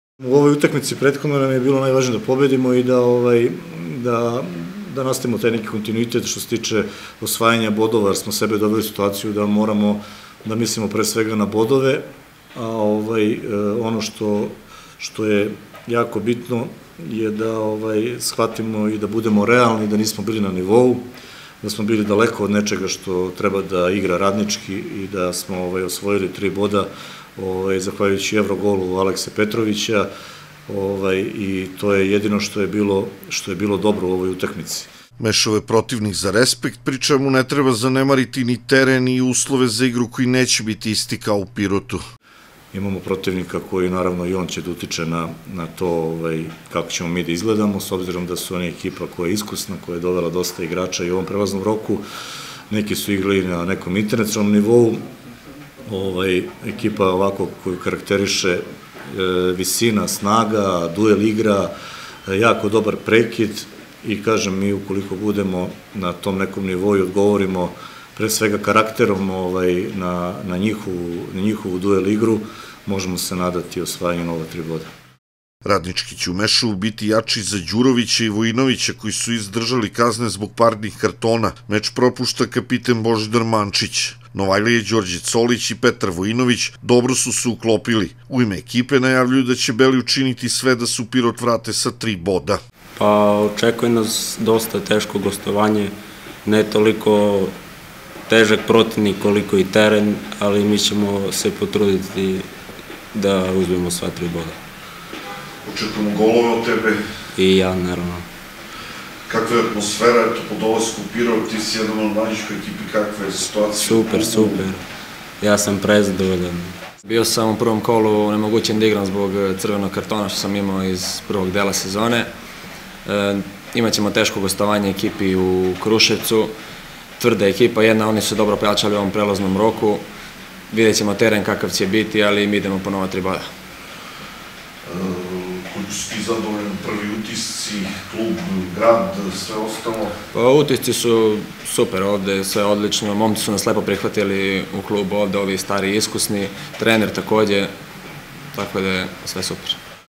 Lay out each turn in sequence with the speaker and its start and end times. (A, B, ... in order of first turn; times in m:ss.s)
0:00.2-0:21.1 A
0:21.6-0:30.1 A
0:30.7-0:34.9 A
0:35.2-0:42.0 B
0:42.7-0:52.0 A
0:52.7-0:55.0 A
0:55.9-1:01.7 A
1:02.3-1:14.9 A
1:15.6-1:32.6 B
1:33.0-1:35.9 C
1:36.4-1:37.5 C
1:38.3-1:42.5 C
1:43.1-1:44.6 C
1:45.6-1:47.0 B
1:47.4-1:48.2 C
1:49.3-1:54.7 B
1:53.8-1:54.8 C
1:55.4-1:56.7 C
1:57.0-2:02.3 D
2:03.0-2:06.5 D
2:07.2-2:10.0 D
2:10.7-2:13.4 D
2:14.8-2:20.2 B
2:20.3-2:27.7 D
2:28.5-2:29.8 D